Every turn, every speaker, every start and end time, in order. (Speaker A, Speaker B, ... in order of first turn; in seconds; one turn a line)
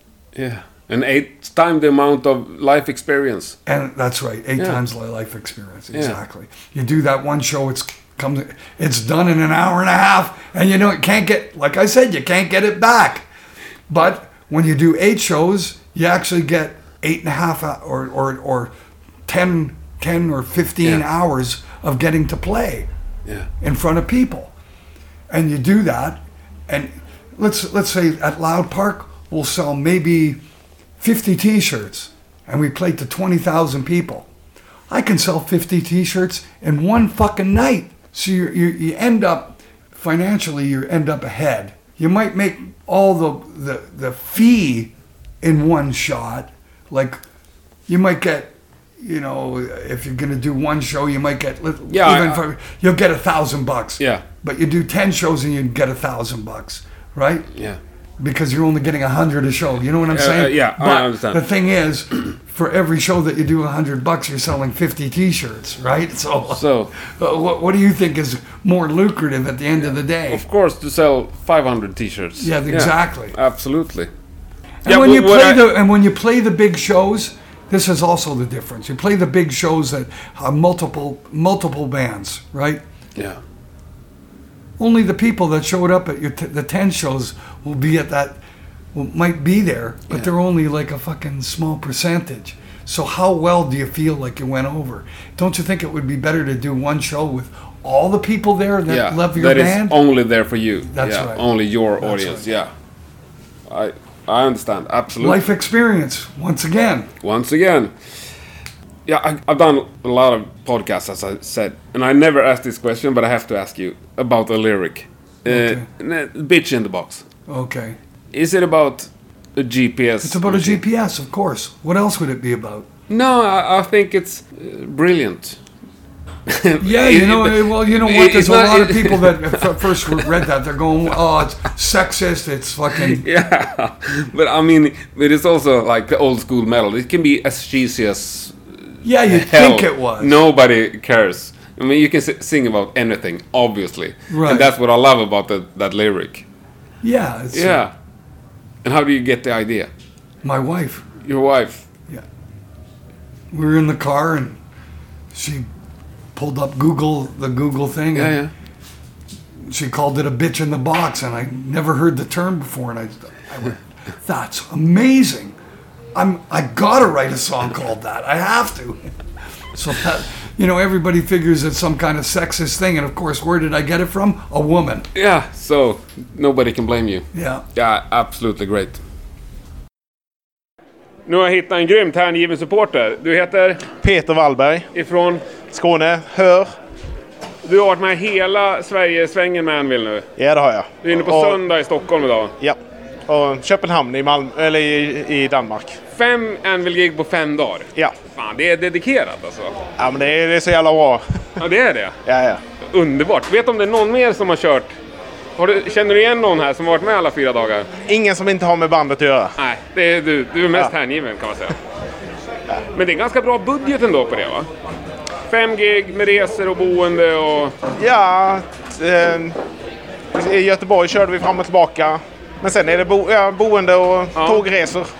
Speaker A: 0.3-3.6
Speaker B: 3.6-13.2
Speaker A: 5.9-6.2
Speaker B: 13.9-18.7
Speaker B: 19.3-22.9
Speaker B: 23.6-24.5
Speaker B: 25.3-30.4
Speaker B: 31.0-34.3
Speaker B: 34.9-47.2
Speaker B: 47.9-57.5
Speaker A: 51.9-52.4
Speaker A: 54.0-54.2
Speaker A: 57.5-57.8
Speaker B: 58.2-70.4
Speaker A: 60.1-61.4
Speaker A: 66.5-66.9
Speaker A: 70.3-74.1
Speaker B: 72.4-73.3
Speaker B: 74.8-82.8
Speaker A: 74.8-75.8
Speaker A: 83.1-83.4
Speaker B: 84.8-88.4
Speaker B: 88.9-100.0
Speaker A: 98.9-102.7
Speaker B: 100.9-101.5
Speaker B: 102.0-102.5
Speaker A: 103.7-105.4
Speaker B: 105.2-107.1
Speaker A: 107.2-107.9
Speaker A: 109.0-117.2
Speaker B: 115.5-115.8
Speaker B: 117.5-118.0
Speaker A: 118.3-120.8
Speaker B: 120.2-122.9
Speaker A: 123.1-125.6
Speaker A: 126.5-130.4
Speaker B: 126.8-133.2
Speaker A: 132.9-138.6
Speaker B: 139.0-140.4
Speaker A: 139.3-146.4
Speaker B: 144.3-144.7
Speaker B: 147.0-147.8
Speaker A: 147.5-147.9
Speaker A: 148.8-149.9
Speaker B: 150.4-151.1
Speaker A: 151.2-151.8
Speaker B: 153.5-154.6
Speaker B: 155.3-155.7
Speaker B: 156.3-158.4
Speaker A: 158.1-158.5
Speaker B: 159.7-165.5
Speaker B: 166.1-169.1
Speaker B: 169.7-175.1
Speaker A: 175.1-179.0
Speaker B: 177.3-177.6
Speaker A: 181.2-183.8
Speaker C: 184.0-184.9
Speaker A: 184.9-185.4
Speaker C: 185.6-186.7
Speaker A: 187.6-190.3
Speaker C: 190.4-191.6
Speaker A: 191.0-192.5
Speaker C: 192.6-196.0
Speaker A: 196.1-199.8
Speaker C: 200.0-201.5
Speaker A: 201.6-202.1
Speaker C: 202.2-202.6
Speaker A: 202.8-204.9
Speaker A: 205.6-207.9
Speaker C: 208.0-209.5
Speaker A: 209.6-211.8
Speaker A: 212.9-214.7
Speaker A: 215.5-217.8
Speaker C: 218.0-219.6
Speaker C: 220.3-225.1
Speaker A: 224.3-224.6